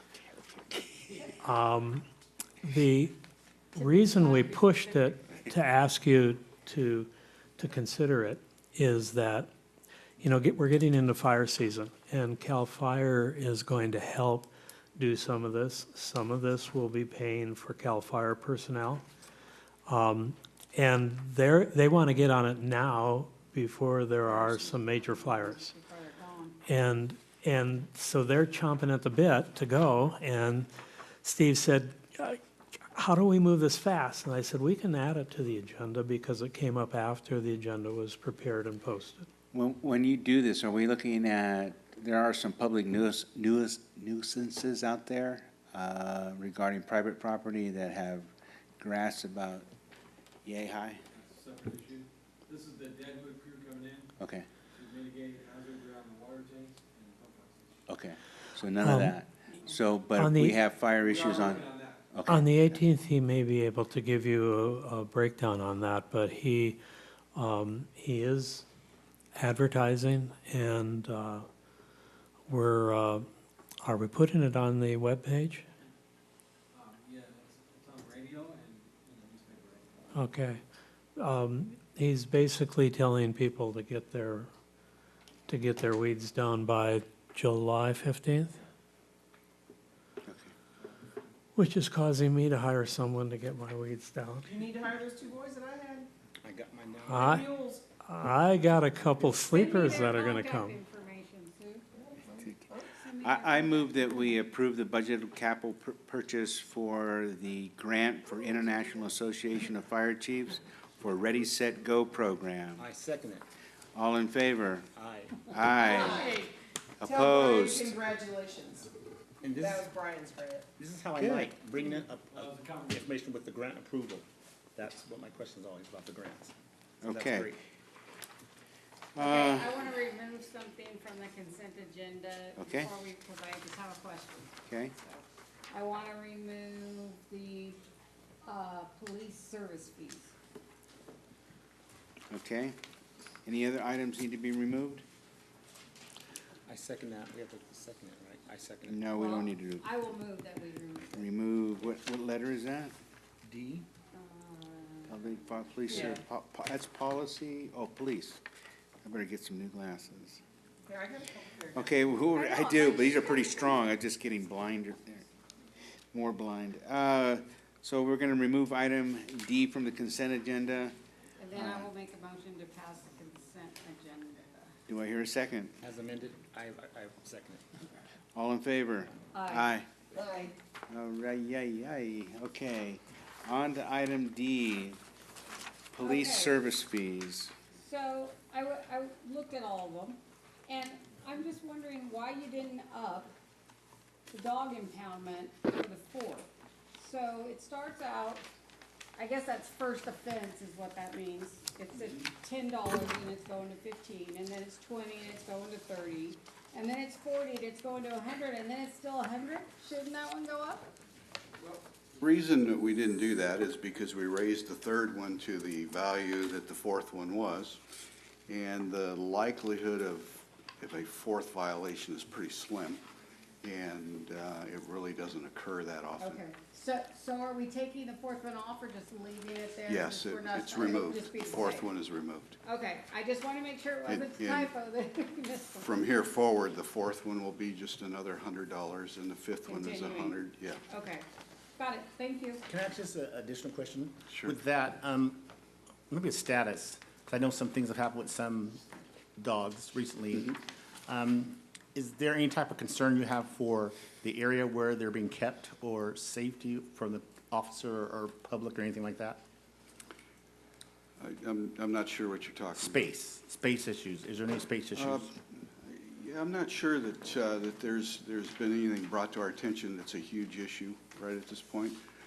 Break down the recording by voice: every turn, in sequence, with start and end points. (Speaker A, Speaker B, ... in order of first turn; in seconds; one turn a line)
Speaker A: 0.1-1.3
Speaker B: 1.4-2.0
Speaker B: 2.6-3.1
Speaker B: 3.7-9.5
Speaker C: 3.8-5.2
Speaker B: 10.2-19.0
Speaker B: 19.9-25.7
Speaker C: 24.3-26.6
Speaker B: 26.7-30.7
Speaker B: 31.2-32.4
Speaker B: 32.9-39.3
Speaker A: 39.5-49.7
Speaker A: 50.4-51.0
Speaker D: 51.1-54.1
Speaker A: 54.2-54.5
Speaker D: 54.7-57.8
Speaker A: 57.9-62.8
Speaker B: 58.8-59.1
Speaker B: 60.2-60.6
Speaker D: 61.0-62.0
Speaker B: 62.3-66.8
Speaker B: 67.3-68.7
Speaker B: 69.3-71.5
Speaker B: 72.5-73.2
Speaker B: 73.8-75.7
Speaker D: 76.7-80.2
Speaker B: 80.1-80.6
Speaker B: 81.2-84.5
Speaker B: 85.5-88.6
Speaker A: 90.2-90.5
Speaker B: 91.5-94.5
Speaker E: 94.4-96.1
Speaker F: 96.4-97.4
Speaker B: 97.1-97.5
Speaker E: 97.2-97.8
Speaker B: 98.0-100.8
Speaker C: 99.5-101.8
Speaker E: 102.0-103.0
Speaker C: 103.0-104.0
Speaker A: 103.2-112.8
Speaker F: 112.8-113.5
Speaker A: 113.9-114.9
Speaker F: 114.9-115.9
Speaker A: 115.5-116.3
Speaker E: 115.8-118.9
Speaker A: 117.0-117.9
Speaker F: 119.4-119.9
Speaker E: 119.6-120.7
Speaker F: 120.8-126.5
Speaker A: 121.2-121.5
Speaker D: 121.7-123.0
Speaker A: 127.0-127.5
Speaker F: 127.0-127.6
Speaker A: 129.1-129.8
Speaker C: 129.2-137.8
Speaker A: 132.6-132.9
Speaker A: 134.7-134.9
Speaker C: 138.4-140.3
Speaker A: 142.3-142.8
Speaker A: 143.4-145.0
Speaker F: 146.7-149.1
Speaker A: 148.9-149.8
Speaker C: 149.2-151.4
Speaker A: 151.1-152.9
Speaker F: 153.4-153.8
Speaker C: 154.1-156.1
Speaker A: 155.1-158.4
Speaker A: 159.0-160.4
Speaker E: 160.9-163.5
Speaker A: 161.7-165.2
Speaker A: 166.1-170.9
Speaker C: 171.4-174.8
Speaker A: 171.5-171.9
Speaker A: 174.9-175.7
Speaker F: 175.8-177.9
Speaker A: 178.3-179.9
Speaker C: 179.3-179.7
Speaker E: 180.2-180.5
Speaker A: 180.9-185.0
Speaker A: 185.9-187.5
Speaker C: 186.0-186.6
Speaker C: 187.8-193.3
Speaker C: 194.3-198.5
Speaker C: 199.2-210.9
Speaker G: 212.2-217.8
Speaker G: 218.5-223.0
Speaker G: 223.6-226.4
Speaker C: 226.2-231.9
Speaker G: 229.9-232.6
Speaker C: 232.6-236.0
Speaker G: 234.1-234.7
Speaker G: 235.8-240.8
Speaker C: 239.6-241.2
Speaker C: 241.8-242.6
Speaker F: 242.7-245.5
Speaker G: 244.3-244.5
Speaker F: 246.1-248.8
Speaker F: 249.4-259.4
Speaker G: 261.2-263.0
Speaker F: 262.8-265.4
Speaker G: 264.9-272.0